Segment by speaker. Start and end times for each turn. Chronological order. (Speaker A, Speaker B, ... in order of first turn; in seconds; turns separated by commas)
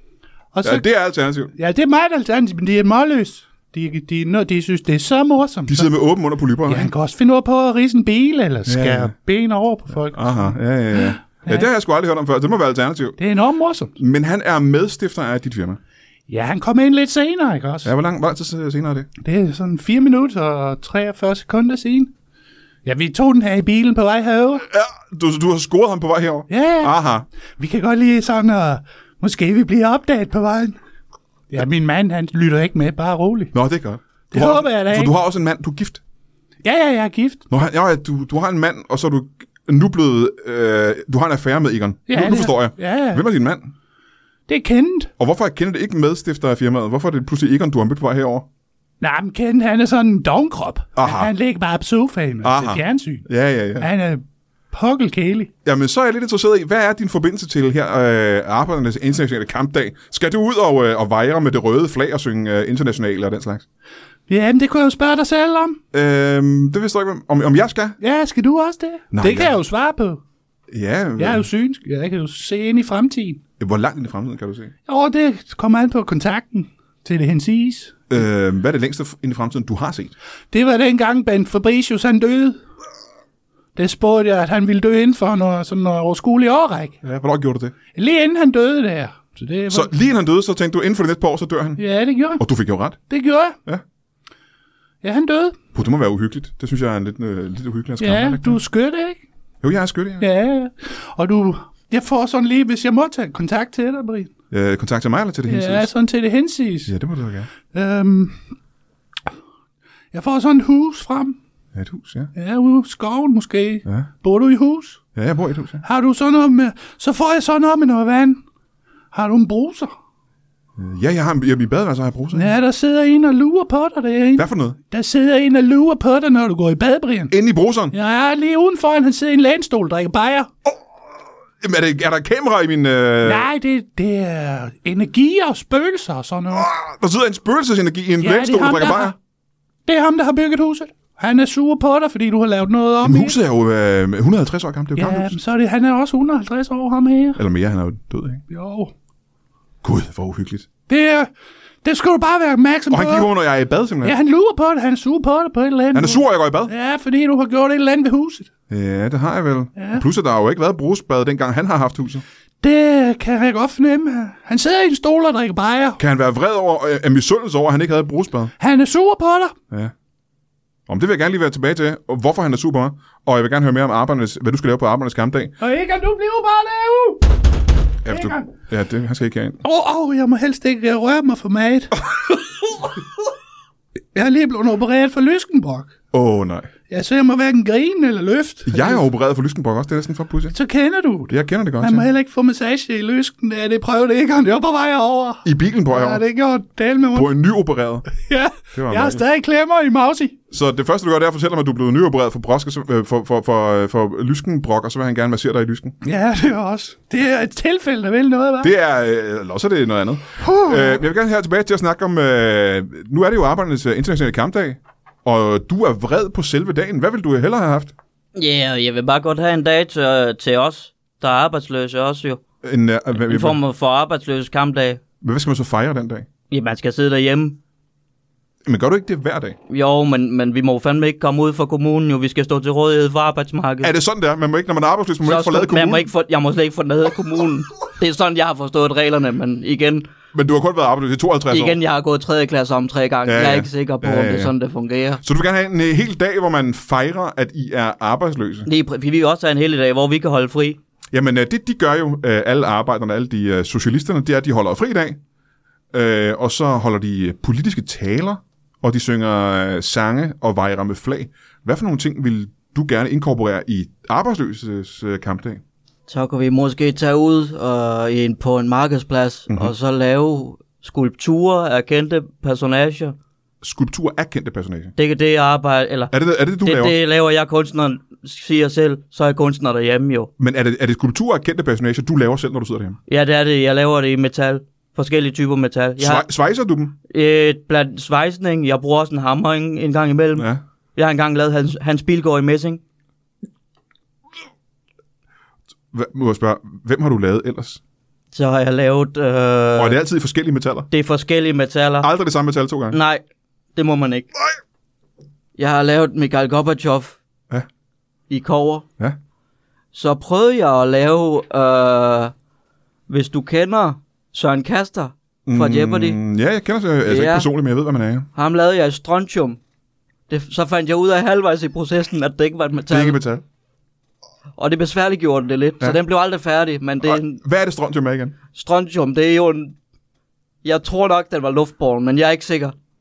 Speaker A: 0.5-0.8, Speaker B: 0.6-1.5, Speaker A: 1.6-5.9, Speaker B: 5.7-6.9, Speaker A: 6.7-11.7, Speaker B: 8.7-9.1, Speaker B: 10.1-13.2, Speaker A: 13.2-13.9, Speaker B: 14.0-15.8, Speaker A: 16.3-17.9, Speaker B: 17.9-19.1, Speaker A: 19.2-22.1, Speaker A: 22.9-24.6, Speaker B: 24.7-27.3, Speaker A: 26.5-26.9, Speaker A: 27.6-30.8, Speaker A: 31.5-33.5, Speaker B: 33.5-36.0, Speaker A: 34.3-35.1, Speaker A: 36.6-37.5, Speaker B: 37.5-43.7, Speaker A: 42.1-43.2, Speaker A: 44.5-45.1, Speaker B: 45.2-48.5, Speaker A: 49.0-53.3, Speaker B: 51.0-51.3, Speaker B: 52.4-53.9, Speaker A: 53.8-55.5, Speaker B: 55.6-63.6, Speaker A: 64.3-65.8, Speaker B: 65.9-68.0, Speaker A: 68.0-70.2, Speaker B: 69.1-69.6, Speaker B: 70.7-71.5, Speaker A: 71.2-73.4, Speaker B: 73.6-74.7, Speaker A: 74.9-78.0, Speaker B: 78.1-80.1, Speaker A: 80.5-82.6, Speaker A: 83.8-87.0, Speaker B: 87.0-87.8, Speaker A: 87.9-90.0, Speaker B: 89.7-91.8, Speaker A: 91.8-92.4, Speaker B: 92.4-93.0, Speaker A: 93.1-93.6, Speaker A: 95.0-95.6, Speaker B: 95.8-98.6, Speaker A: 98.0-99.2, Speaker B: 99.6-100.3, Speaker A: 100.2-104.3, Speaker B: 104.5-105.9, Speaker A: 105.5-106.9, Speaker B: 106.9-107.5, Speaker A: 107.7-108.4, Speaker A: 110.1-111.4, Speaker B: 111.8-112.3, Speaker A: 112.3-115.0, Speaker B: 115.2-115.8, Speaker A: 115.8-118.4, Speaker A: 119.1-119.9, Speaker B: 120.8-122.5, Speaker A: 122.3-127.3, Speaker B: 124.4-124.8, Speaker B: 127.3-127.9, Speaker A: 127.9-130.5, Speaker B: 131.6-133.5, Speaker A: 133.2-136.7, Speaker B: 136.5-139.2, Speaker A: 138.2-139.2, Speaker A: 139.9-143.4, Speaker B: 143.0-145.4, Speaker A: 145.0-147.4, Speaker B: 147.4-148.4, Speaker A: 148.5-148.9, Speaker B: 149.8-150.7, Speaker A: 150.9-151.3, Speaker A: 151.8-153.3, Speaker B: 152.9-154.2, Speaker A: 154.0-158.5, Speaker B: 155.9-156.7, Speaker B: 158.7-162.2, Speaker A: 159.8-160.0, Speaker A: 162.6-166.0, Speaker B: 166.0-168.5, Speaker A: 168.6-169.6, Speaker B: 170.9-175.5, Speaker A: 175.6-177.3, Speaker B: 178.0-179.6, Speaker A: 178.1-178.5, Speaker A: 179.6-181.9, Speaker A: 184.1-185.9, Speaker B: 186.1-186.7, Speaker A: 186.9-189.1, Speaker B: 188.7-190.6, Speaker A: 190.5-197.3, Speaker B: 191.3-192.1, Speaker B: 195.4-196.2, Speaker B: 197.2-198.1, Speaker A: 198.1-200.4, Speaker B: 198.7-199.2, Speaker B: 200.5-206.0, Speaker A: 206.0-208.7, Speaker B: 208.6-217.9, Speaker A: 210.4-211.0, Speaker C: 218.4-222.4, Speaker B: 222.6-223.6, Speaker C: 223.1-225.0, Speaker B: 225.2-226.3, Speaker C: 226.5-227.6, Speaker B: 228.7-229.6, Speaker C: 229.7-233.9, Speaker B: 233.8-236.1, Speaker C: 235.2-240.1, Speaker B: 240.3-241.8, Speaker C: 241.5-245.2, Speaker B: 243.3-244.5, Speaker B: 245.2-248.7, Speaker C: 248.7-250.8, Speaker B: 251.1-255.2, Speaker B: 255.9-265.6, Speaker C: 266.1-273.1, Speaker B: 273.6-274.9, Speaker C: 275.0-280.3, Speaker B: 276.1-277.0, Speaker B: 280.4-283.0, Speaker C: 283.1-286.3, Speaker B: 286.0-286.9, Speaker C: 287.1-292.8, Speaker B: 295.9-297.8, Speaker C: 298.3-300.0, Speaker B: 299.8-300.9, Speaker C: 300.9-302.1, Speaker B: 302.0-303.0, Speaker C: 302.9-303.2, Speaker C: 303.8-304.3, Speaker C: 305.6-307.2, Speaker C: 308.3-308.9, Speaker C: 309.9-312.3, Speaker C: 313.1-316.2, Speaker B: 315.5-318.3, Speaker C: 317.1-317.5, Speaker C: 318.4-319.6, Speaker C: 320.3-323.2, Speaker B: 322.9-323.4, Speaker C: 324.6-327.4, Speaker B: 327.0-328.4, Speaker C: 328.6-329.8, Speaker C: 330.6-332.7